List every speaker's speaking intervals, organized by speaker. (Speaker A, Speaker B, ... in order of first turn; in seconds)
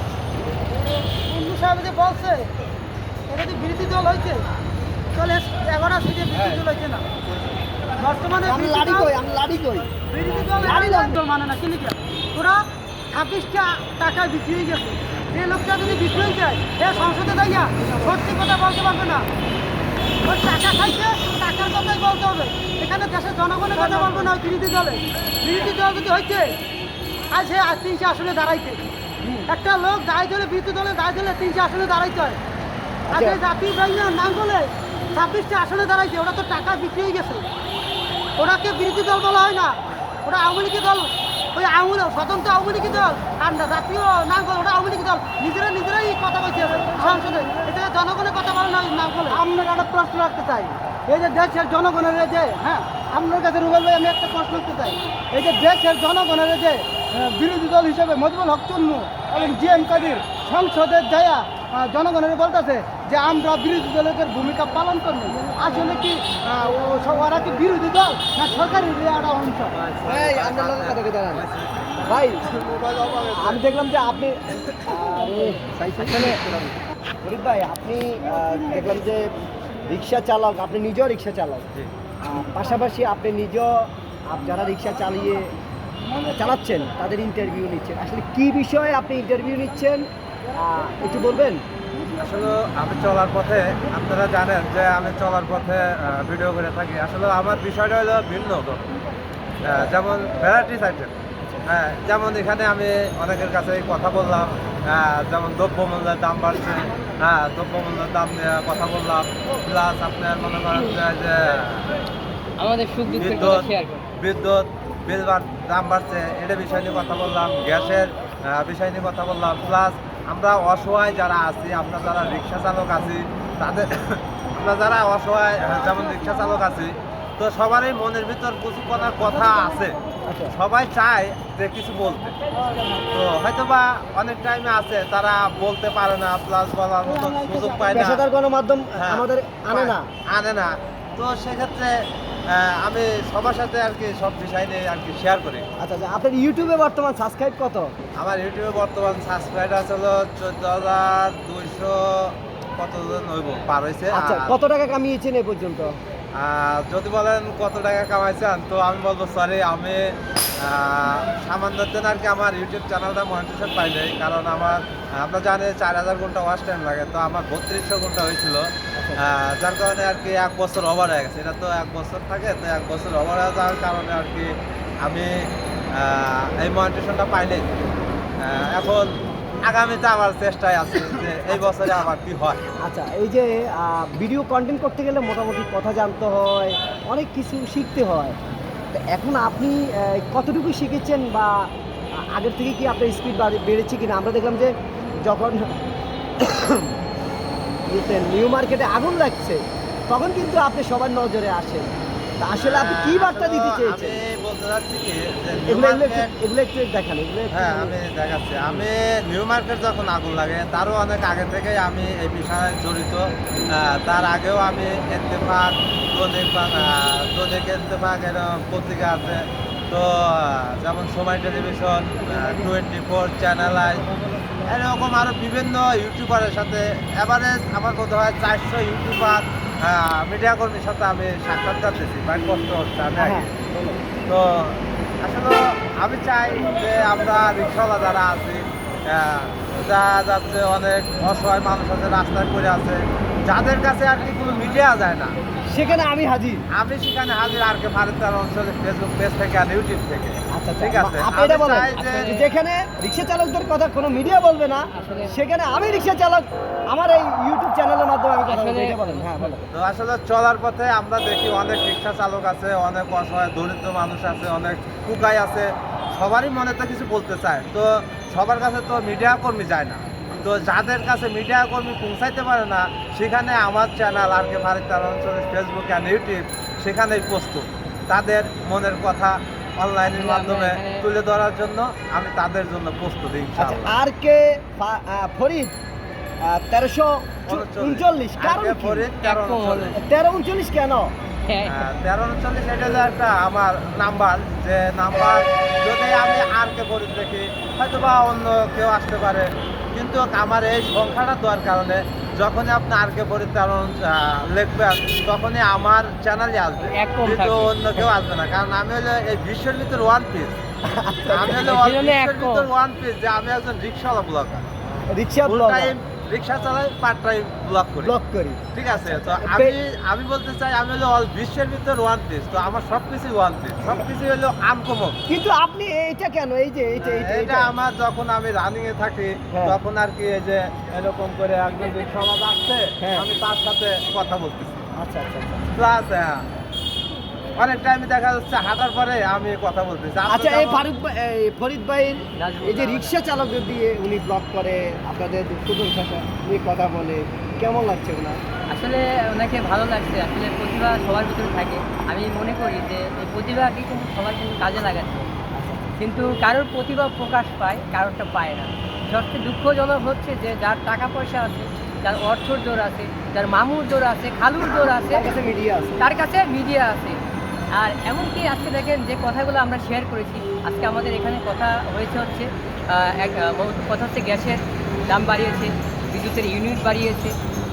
Speaker A: 1.3-2.5, 3.3-4.4, 5.1-7.0, 8.0-9.1, 10.1-19.2, 20.2-26.5, 27.3-28.8, 29.5-32.4, 33.1-37.4, 38.4-69.7
Speaker B: 6.3-6.6, 69.7-73.6, 92.2-98.8, 99.6-101.1, 101.7-111.9, 113.2-129.9, 130.5-132.3, 133.1-138.2, 139.0-141.9, 142.5-145.7, 148.2-154.5, 156.4-168.7, 169.2-174.5, 175.0-175.3, 175.9-179.1, 179.6-182.6, 202.5-206.3, 207.5-224.0, 224.6-233.5, 234.3-245.3, 246.7-252.3, 259.7-283.9, 287.5-290.0, 291.6-310.6, 311.3-314.6, 315.4-318.1, 318.7-325.2, 327.0-334.9, 335.7-336.4, 337.6-340.9
Speaker C: 8.4-9.9, 10.5-11.2, 23.7-24.3, 29.2-29.5, 33.1-33.4, 70.0-71.5, 72.0-72.4, 73.3-79.3, 79.8-81.7, 82.2-85.5, 86.2-91.6, 130.2-130.5, 137.9-140.1, 145.8-147.9, 154.1-155.9, 168.9-169.2, 182.8-188.4, 188.9-191.7, 192.3-194.7, 195.2-195.7, 196.4-196.9, 197.9-204.2, 205.7-207.9, 233.2-234.0, 245.7-246.6, 250.5-259.7, 283.6-285.8, 286.4-289.1, 289.9-291.1, 310.8-311.7, 315.1-315.9, 318.0-319.8, 325.3-327.7, 329.5-329.8, 333.0-333.2, 334.9-335.7, 340.2-348.4, 355.5-356.0, 365.1-366.1
Speaker D: 112.6-114.0, 252.0-252.4, 254.9-255.3, 258.5-259.3, 280.1-281.1, 289.2-290.0, 291.5-291.9, 306.8-308.1, 311.6-312.7, 342.4-343.1, 348.7-355.3, 356.0-365.2, 366.0-367.2, 367.8-377.3